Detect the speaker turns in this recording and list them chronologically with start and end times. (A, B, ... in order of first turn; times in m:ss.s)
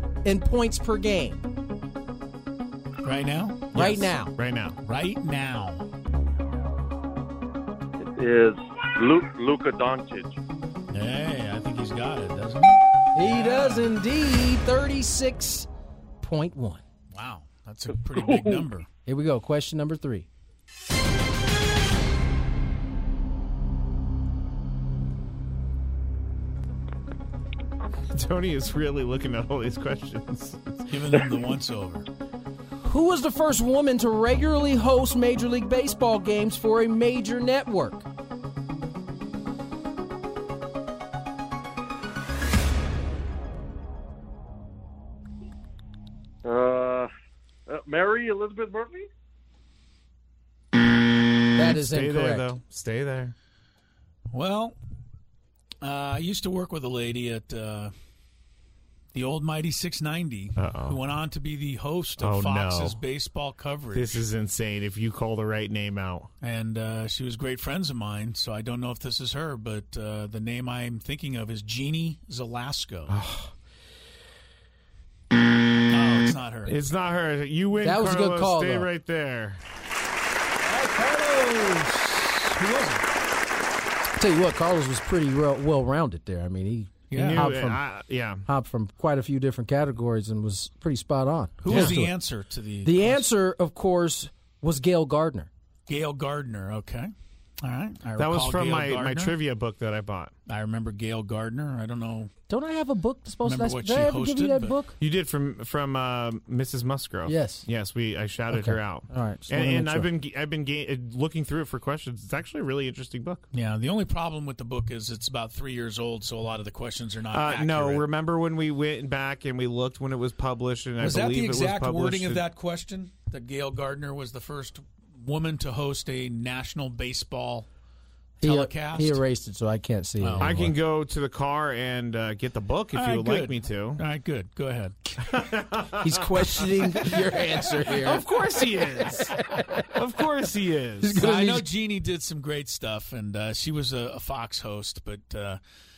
0:00.2-0:01.4 A
0:03.0-0:03.9 B
0:03.7-0:04.3 A
0:03.7-0:04.8 C
0:04.8-0:05.8 B
0:08.0-0:10.4 D
0:10.9-0:13.9 B
0:13.2-0:15.7 A
0:16.2-0:16.8 A
0:17.1-0:18.9 B
0:18.1-0:18.6 D
0:19.1-0:20.3 A
0:28.1-0:30.8 C
0:30.9-0:32.1 B
0:32.8-0:38.0 A
0:46.4-0:47.1 D
0:47.7-0:49.1 D
0:51.6-0:52.5 A
0:51.6-0:53.4 C
0:54.3-0:54.8 B
0:55.8-0:57.9 B
0:59.1-1:04.2 B
1:00.6-1:01.0 C
1:02.2-1:03.0 C
1:03.9-1:06.3 C
1:06.4-1:13.1 B
1:13.1-1:13.5 C
1:15.9-1:16.8 B
1:16.7-1:19.6 C
1:17.8-1:18.9 A
1:20.6-1:23.0 B
1:24.2-1:27.8 A
1:27.1-1:27.5 B
1:27.1-1:28.4 C
1:28.4-1:32.2 A
1:31.6-1:33.3 B
1:31.7-1:32.0 C
1:32.8-1:35.5 A
1:35.9-1:37.1 B
1:37.6-1:39.3 B
1:38.2-1:40.3 C
1:40.5-1:42.3 B
1:42.5-1:45.0 A
1:43.4-1:44.8 B
1:45.0-1:53.5 C
1:47.3-1:47.6 A
1:48.5-1:50.1 A
1:53.5-1:58.1 B
1:57.3-2:02.4 C
2:01.0-2:07.7 B
2:08.4-2:09.2 B
2:08.4-2:10.7 A
2:10.2-2:10.7 B
2:10.4-2:14.0 C
2:12.9-2:15.0 B
2:15.2-2:17.0 C
2:16.0-2:18.3 A
2:17.9-2:19.3 C
2:19.0-2:19.9 A
2:20.0-2:21.2 C
2:21.0-2:21.7 A
2:21.2-2:25.6 B